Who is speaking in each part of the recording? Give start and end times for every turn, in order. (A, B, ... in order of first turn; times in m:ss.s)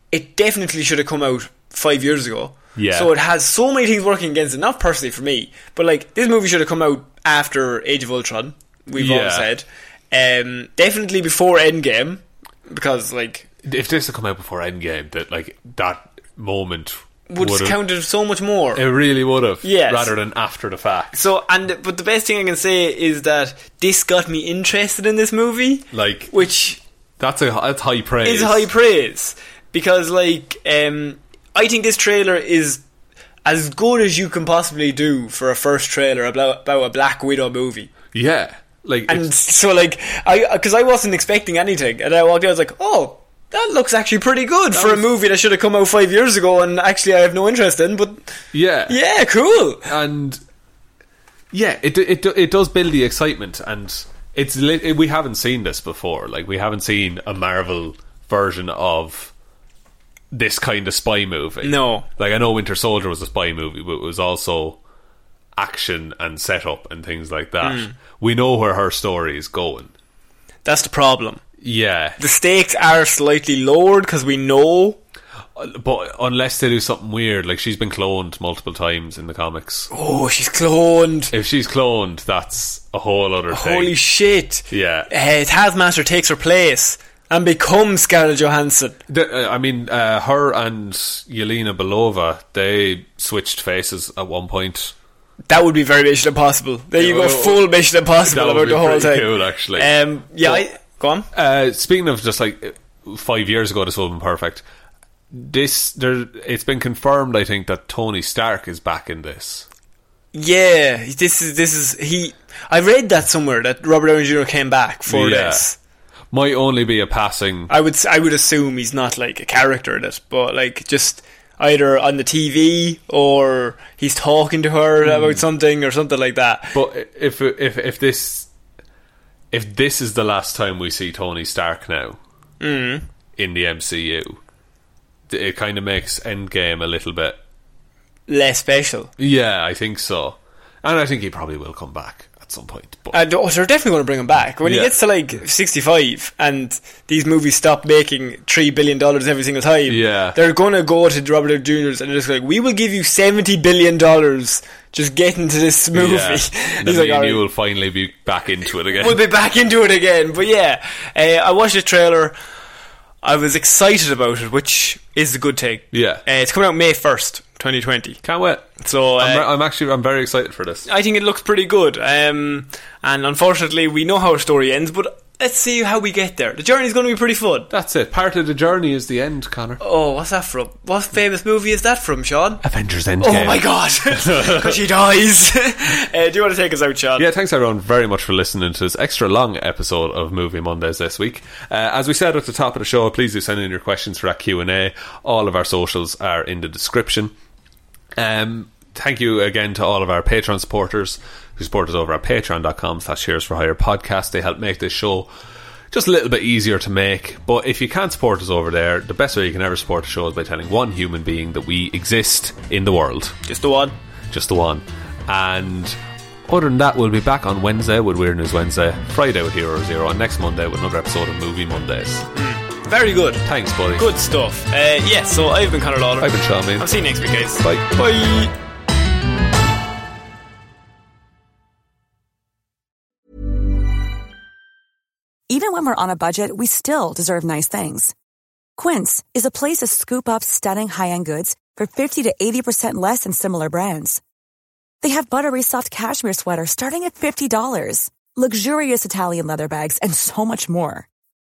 0:00.1-0:13.5 A
0:02.8-0:03.1 B
0:09.0-0:09.5 B
0:13.6-0:17.8 B
0:17.3-0:18.8 A
0:18.7-0:21.2 B
0:19.6-0:20.1 A
0:21.1-0:26.8 A
0:25.9-0:26.3 B
0:27.2-0:28.7 B
0:28.2-0:32.8 A
0:33.4-0:37.9 A
0:38.1-0:39.3 B
0:39.1-0:48.3 A
0:44.7-0:45.1 B
0:48.5-0:49.0 B
0:48.9-0:49.9 A
0:49.8-0:50.4 B
0:51.5-0:59.3 B
1:00.3-1:04.8 B
1:01.6-1:02.0 A
1:05.6-1:09.9 B
1:07.6-1:07.9 A
1:10.6-1:11.4 A
1:11.6-1:12.2 B
1:12.2-1:15.0 A
1:15.6-1:19.9 B
1:19.9-1:21.3 A
1:21.3-1:23.9 B
1:23.5-1:29.0 A
1:24.7-1:25.1 B
1:29.1-1:34.9 B
1:35.5-1:41.3 A
1:37.0-1:37.7 B
1:38.2-1:39.9 B
1:41.3-1:44.6 B
1:45.3-1:49.6 B
1:50.3-1:55.8 A
1:55.1-1:55.6 B
1:56.3-1:57.7 B
1:57.7-2:06.8 A
2:05.0-2:05.4 B
2:06.7-2:08.5 B
2:09.5-2:12.2 B
2:12.6-2:13.1 A
2:13.4-2:14.4 B
2:15.3-2:17.4 B
2:18.3-2:19.1 A
2:19.2-2:23.2 B
2:23.1-2:37.4 A
2:24.6-2:25.0 B
2:29.9-2:30.4 B
2:35.9-2:39.2 B
2:38.9-2:42.3 A
2:43.2-2:48.2 A
2:45.9-2:46.2 B
2:48.2-2:50.9 B
2:48.8-2:49.4 A
2:50.8-2:57.7 A
2:57.7-2:59.8 B
2:59.8-3:02.6 A
3:02.6-3:04.8 B
3:03.2-3:07.3 A
3:07.2-3:17.3 B
3:18.2-3:25.3 B
3:25.9-3:33.4 B
3:33.4-3:33.9 A
3:34.3-3:36.0 B
3:36.5-3:42.3 B
3:42.3-3:43.4 A
3:43.4-3:44.1 B
3:44.0-3:48.5 A
3:46.2-3:47.9 B
3:55.5-3:58.1 C
3:58.8-4:04.2 C
4:05.0-4:11.1 C